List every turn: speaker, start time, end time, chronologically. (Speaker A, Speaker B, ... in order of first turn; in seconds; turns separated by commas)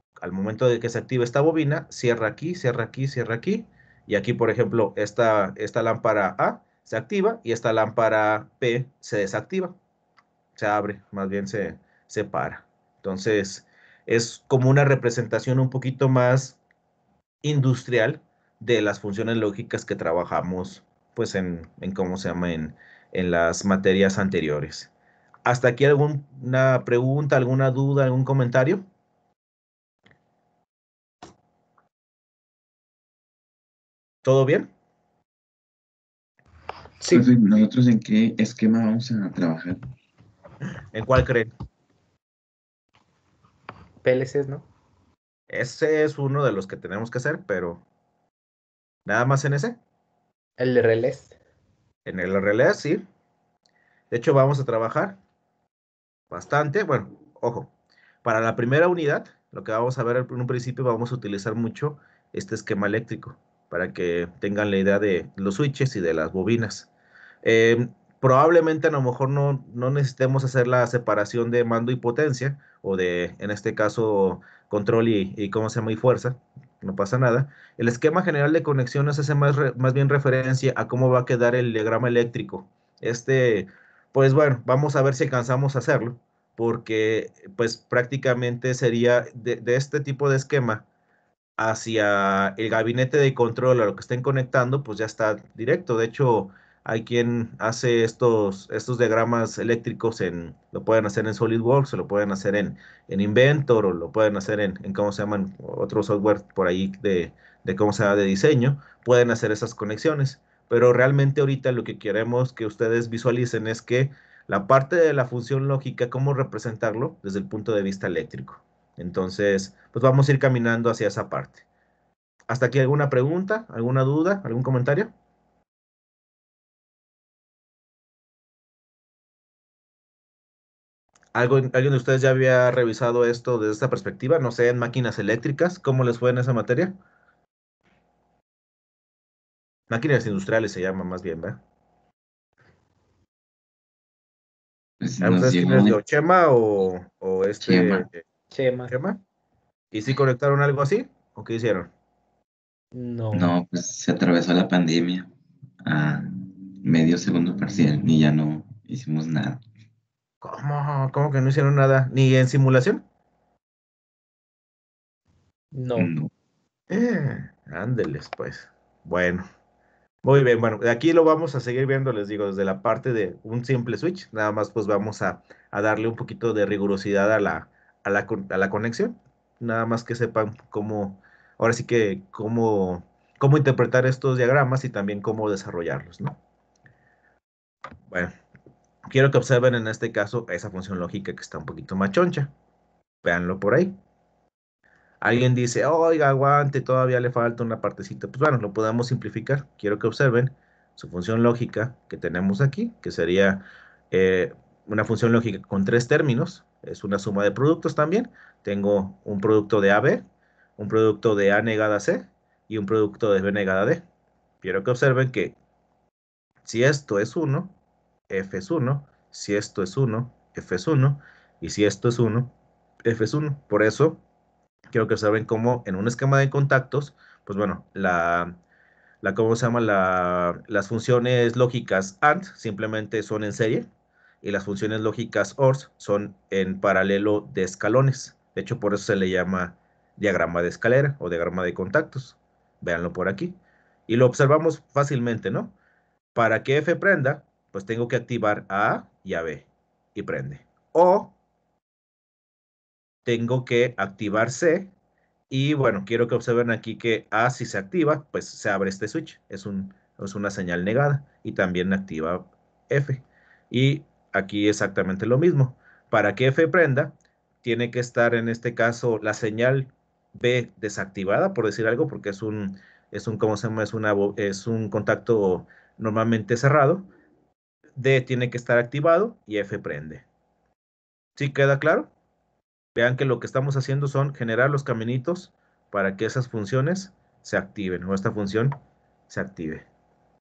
Speaker A: 0.2-9.8, Speaker A: 10.6-16.6, Speaker A: 17.4-24.9, Speaker A: 25.4-28.9, Speaker A: 34.2-34.7, Speaker B: 37.0-37.3, Speaker C: 37.1-39.9, Speaker A: 40.9-41.5, Speaker B: 44.0-44.7, Speaker A: 45.5-47.8, Speaker A: 49.1-49.8, Speaker B: 50.6-51.4, Speaker A: 52.1-53.0, Speaker A: 54.1-55.2, Speaker A: 56.3-57.7, Speaker A: 58.2-66.9, Speaker A: 67.4-90.9, Speaker A: 91.6-121.6, Speaker A: 122.5-125.1, Speaker A: 131.3-137.0, Speaker A: 139.9-141.6, Speaker C: 145.0-146.0, Speaker A: 145.2-148.2, Speaker C: 147.6-148.1, Speaker B: 148.5-148.9, Speaker A: 148.9-149.2, Speaker A: 149.9-151.9, Speaker B: 152.9-153.5, Speaker C: 153.3-155.3, Speaker C: 155.8-159.6, Speaker A: 160.4-163.0, Speaker B: 165.7-166.1, Speaker C: 166.0-166.3, Speaker A: 166.9-169.4, Speaker A: 170.2-186.4, Speaker A: 189.1-192.5, Speaker A: 193.2-194.0, Speaker A: 195.2-210.2, Speaker A: 210.8-214.1, Speaker A: 214.6-215.6, Speaker A: 216.6-217.7, Speaker A: 218.3-222.5, Speaker A: 223.0-224.2, Speaker A: 224.9-228.6, Speaker A: 229.2-233.9, Speaker A: 234.4-243.6, Speaker A: 244.1-245.8, Speaker A: 246.3-251.3, Speaker A: 253.2-254.9, Speaker A: 255.5-277.1, Speaker A: 278.0-280.2, Speaker A: 281.4-282.1, Speaker A: 282.9-288.8, Speaker A: 289.3-289.9